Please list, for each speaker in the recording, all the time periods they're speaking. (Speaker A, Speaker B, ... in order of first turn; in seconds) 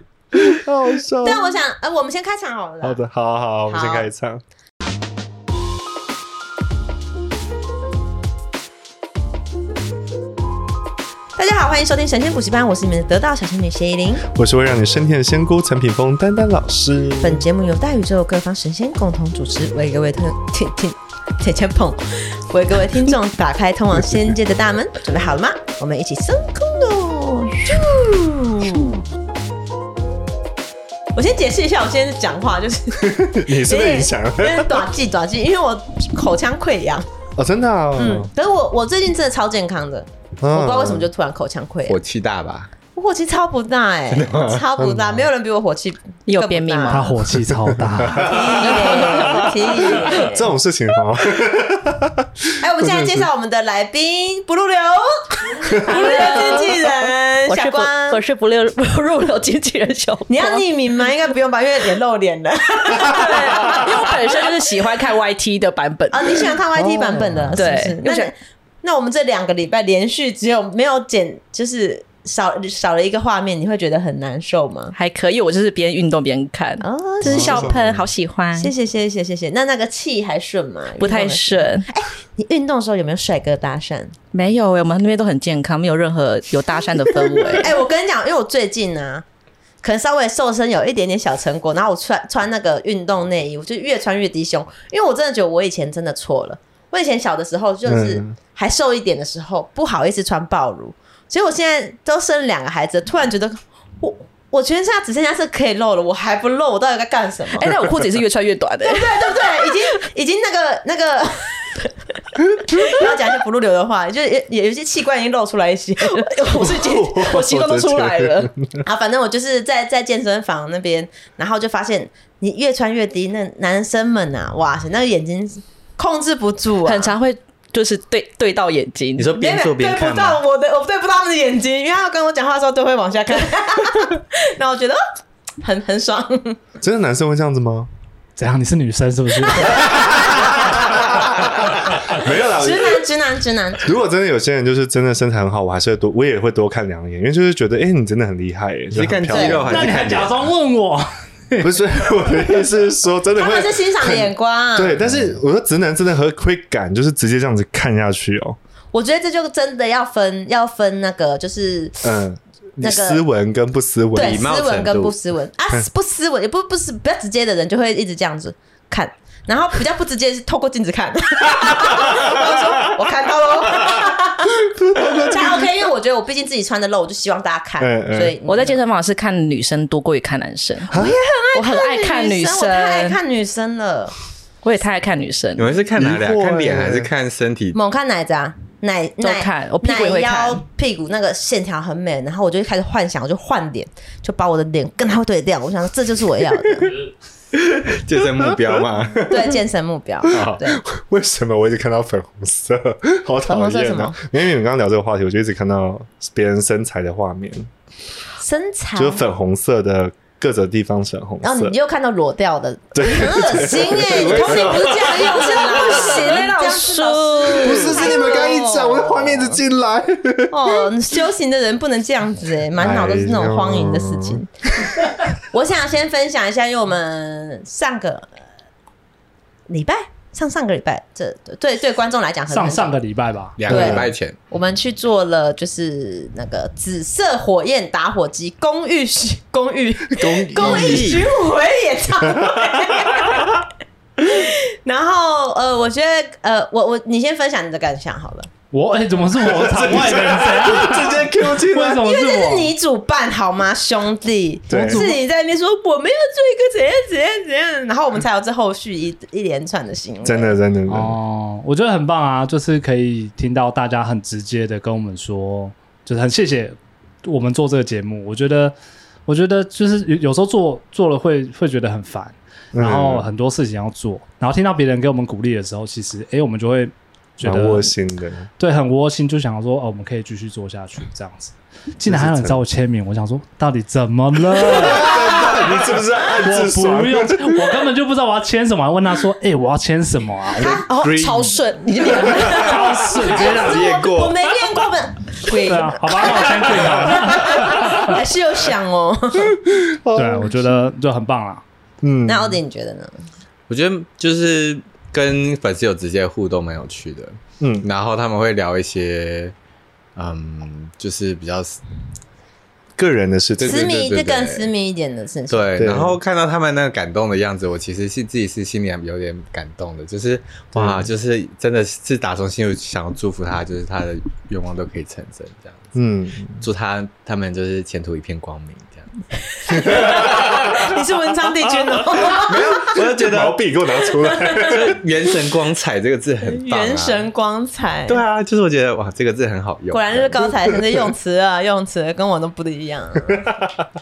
Speaker A: 0.4-1.6, 2.8-4.4, 14.3-17.4, 33.0-34.9, 37.4-38.3, 40.4-41.1, 44.8-45.3, 47.5-53.2, 66.8-67.6, 77.2-78.0, 97.8-98.3, 116.6-118.8, 136.8-137.9, 139.9-143.0, 143.8-149.9, 151.6-158.6, 162.0-164.4, 171.7-172.3, 174.7-175.7, 177.8-178.4, 185.9-187.1, 198.2-198.8, 200.2-207.7, 208.9-211.7, 212.9-214.9, 217.5-220.8, 222.8-224.9, 233.7-234.1, 240.1-241.2, 242.4-242.7, 249.3-252.0, 254.7-255.1, 260.2-261.2, 272.7-273.3, 277.4-278.5, 282.0-282.6, 284.6-287.8, 299.6-300.8, 302.0-302.6, 307.6-307.9, 312.9-314.0, 315.8-316.2, 320.7-321.1, 325.9-326.7, 329.7-330.9, 331.6-335.0, 340.5-340.8, 343.3-343.8
Speaker B: 1.2-3.0, 3.7-4.1, 11.4-14.2, 17.2-29.0, 31.1-37.0, 38.0-42.0, 42.9-47.1, 48.1-50.5, 52.6-58.2, 60.3-64.2, 66.1-74.9, 76.8-77.8, 78.5-84.1, 87.5-89.2, 89.8-107.7, 108.8-111.9, 112.6-116.7, 118.8-127.1, 129.3-135.0, 135.6-136.6, 139.7-143.9, 149.3-149.7, 153.3-155.0, 158.9-162.1, 162.8-163.2, 164.1-174.6, 175.2-178.8, 180.9-184.1, 187.7-196.9, 199.3-200.8, 203.4-204.2, 208.4-209.2, 211.4-219.5, 220.5-224.5, 225.3-228.3, 229.7-232.9, 233.7-243.6, 244.2-248.5, 252.0-260.6, 292.2-299.6, 302.2-303.2, 313.6-315.8, 329.6-332.9, 334.3-334.9, 336.4-338.2, 339.9-343.5
Speaker C: 41.9-42.7, 44.1-44.6, 129.2-130.4, 148.9-150.5, 164.2-165.2, 185.6-187.8, 197.5-199.4, 213.9-215.4, 233.6-234.4, 240.3-241.3, 290.9-291.6, 292.5-292.8, 293.4-294.4, 303.7-309.5, 310.1-311.8, 313.6-314.7, 315.5-325.9, 326.6-329.1, 329.8-330.9, 332.2-333.6, 334.6-337.3, 338.1-340.4
Speaker D: 46.3-47.2, 49.0-49.5, 55.9-56.4, 57.5-60.6, 63.0-66.5, 67.5-68.3, 74.9-78.7, 81.0-81.8, 84.3-87.7, 107.5-109.7, 116.1-118.5, 126.8-129.3, 178.4-180.9, 181.5-183.2, 184.6-185.7, 189.2-190.6, 215.1-218.2, 290.6-292.8
Speaker E: 46.9-48.5, 138.4-140.4, 149.7-151.7, 232.5-233.6, 248.7-252.7, 254.7-255.2, 260.9-268.7, 269.2-277.9, 278.6-285.6, 286.4-290.9, 292.4-293.9, 295.5-298.2, 300.1-301.6